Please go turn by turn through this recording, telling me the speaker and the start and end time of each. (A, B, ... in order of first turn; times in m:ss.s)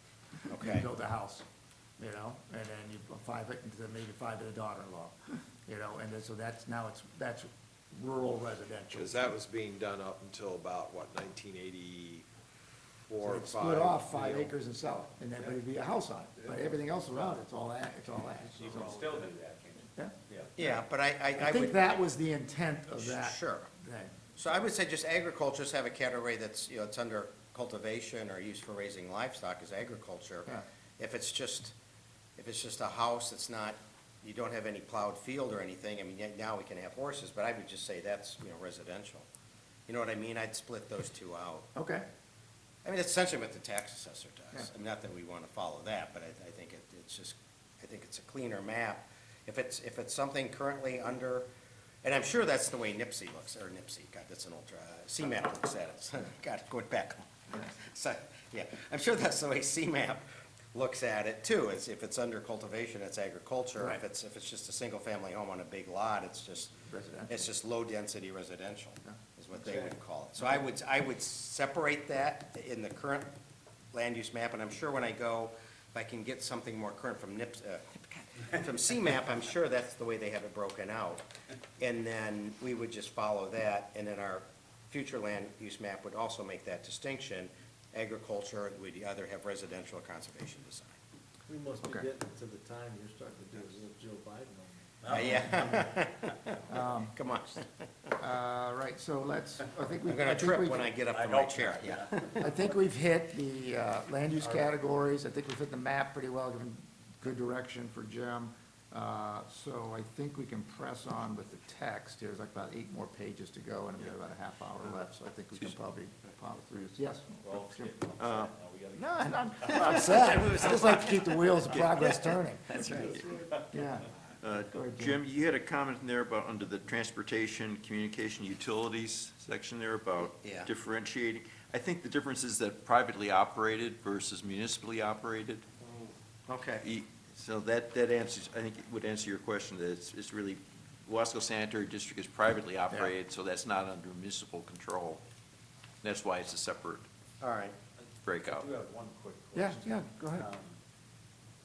0:00.5-0:01.4 A
0:00.5-0:00.8 B
0:02.0-0:09.3 A
0:08.9-0:12.2 C
0:13.1-0:14.3 C
0:13.2-0:19.2 A
0:18.6-0:20.5 D
0:20.0-0:20.8 A
0:20.6-0:22.0 B
0:21.3-0:24.2 A
0:23.0-0:23.7 B
0:24.3-0:31.7 B
0:32.4-0:39.2 B
0:39.9-0:41.7 B
0:41.7-0:42.0 A
0:42.8-0:51.5 B
0:52.0-1:13.3 B
1:06.9-1:07.3 A
1:13.9-1:21.3 B
1:21.8-1:31.0 B
1:31.5-1:35.0 E
1:35.0-1:36.9 D
1:35.1-1:36.5 B
1:36.7-1:37.2 A
1:37.1-1:38.1 B
1:38.2-1:40.9 A
1:40.1-1:42.4 B
1:41.1-1:42.7 D
1:42.4-1:57.9 A
1:44.4-1:44.8 D
1:57.4-2:00.9 D
1:58.2-1:58.6 F
1:58.9-2:04.1 A
2:00.3-2:01.2 B
2:02.8-2:03.1 B
2:04.4-2:15.7 F
2:04.7-2:05.2 A
2:10.4-2:10.7 B
2:15.8-2:16.8 B
2:16.8-2:25.2 F
2:26.0-2:27.1 F
2:27.4-2:27.8 B
2:28.1-2:30.8 D
2:28.2-2:28.7 F
2:29.5-2:30.5 A